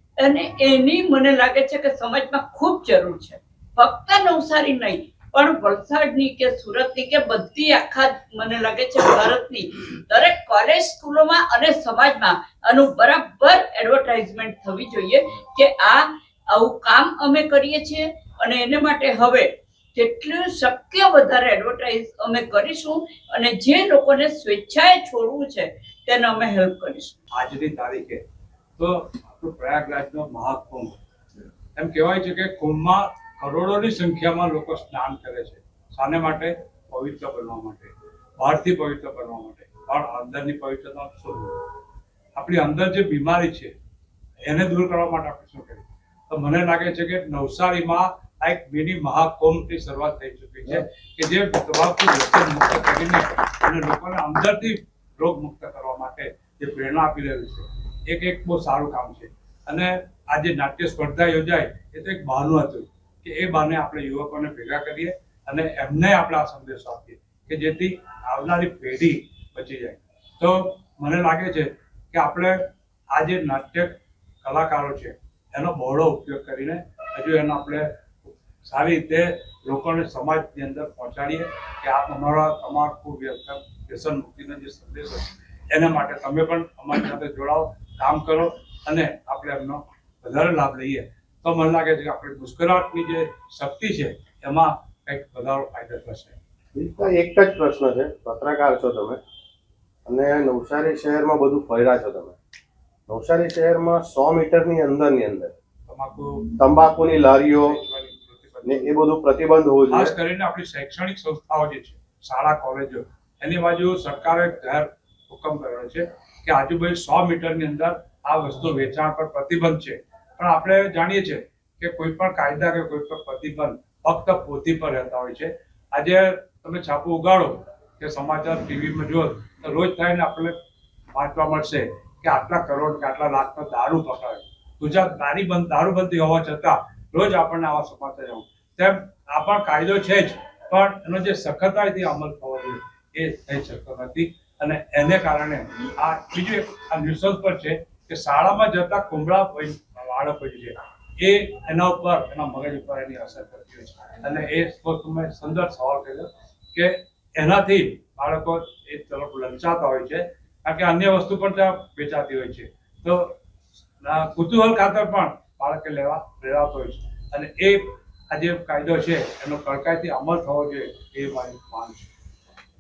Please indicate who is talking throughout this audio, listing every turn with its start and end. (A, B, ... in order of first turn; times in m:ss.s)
0:00.2-0:27.2 A
0:27.3-0:28.2 B
0:28.8-0:31.0 B
0:31.8-0:41.6 B
0:42.4-0:43.7 B
0:44.5-1:12.6 B
1:13.1-1:17.9 B
1:18.6-1:36.4 B
1:36.8-1:39.2 C
1:40.1-1:42.4 C
1:43.1-1:45.5 C
1:45.9-1:46.4 B
1:46.6-1:47.8 C
1:47.2-1:49.0 B
1:48.7-1:50.1 C
1:49.9-2:10.6 B
2:11.1-2:43.3 B
2:44.0-2:52.1 B